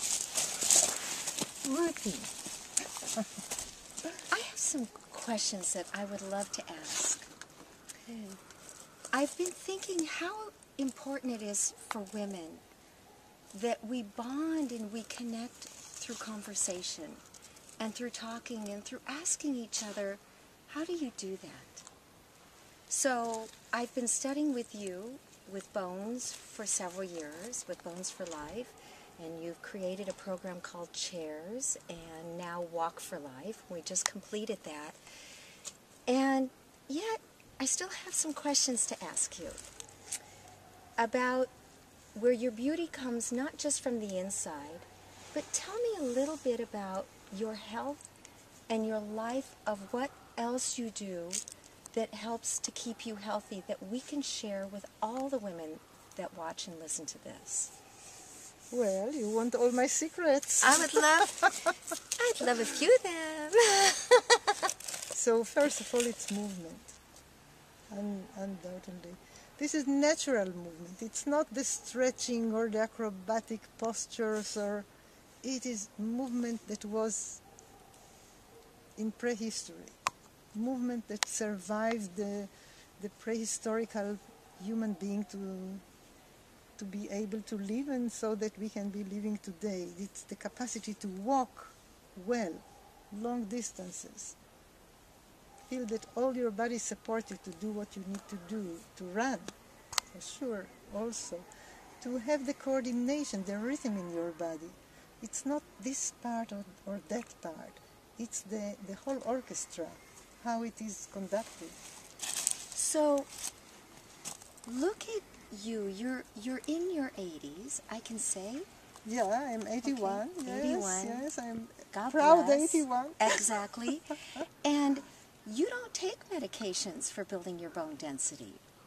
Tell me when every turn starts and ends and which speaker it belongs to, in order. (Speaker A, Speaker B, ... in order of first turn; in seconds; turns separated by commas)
Speaker A: 1.6-2.3, Speaker A: 4.2-7.3, Speaker A: 8.0-8.4, Speaker A: 9.1-12.6, Speaker A: 13.5-17.2, Speaker A: 17.8-21.9, Speaker A: 22.9-35.0, Speaker A: 36.1-39.7, Speaker A: 41.0-41.5, Speaker A: 42.1-48.0, Speaker A: 48.7-57.7, Speaker B: 58.7-61.5, Speaker A: 60.6-64.5, Speaker B: 65.1-67.0, Speaker B: 67.9-74.9, Speaker B: 75.4-77.4, Speaker B: 79.0-80.0, Speaker B: 80.5-85.8, Speaker B: 86.8-94.3, Speaker B: 95.7-99.5, Speaker B: 100.1-101.5, Speaker B: 102.0-111.8, Speaker A: 112.7-113.3, Speaker A: 114.7-118.7, Speaker B: 119.0-123.5, Speaker A: 119.8-121.3, Speaker A: 121.9-128.6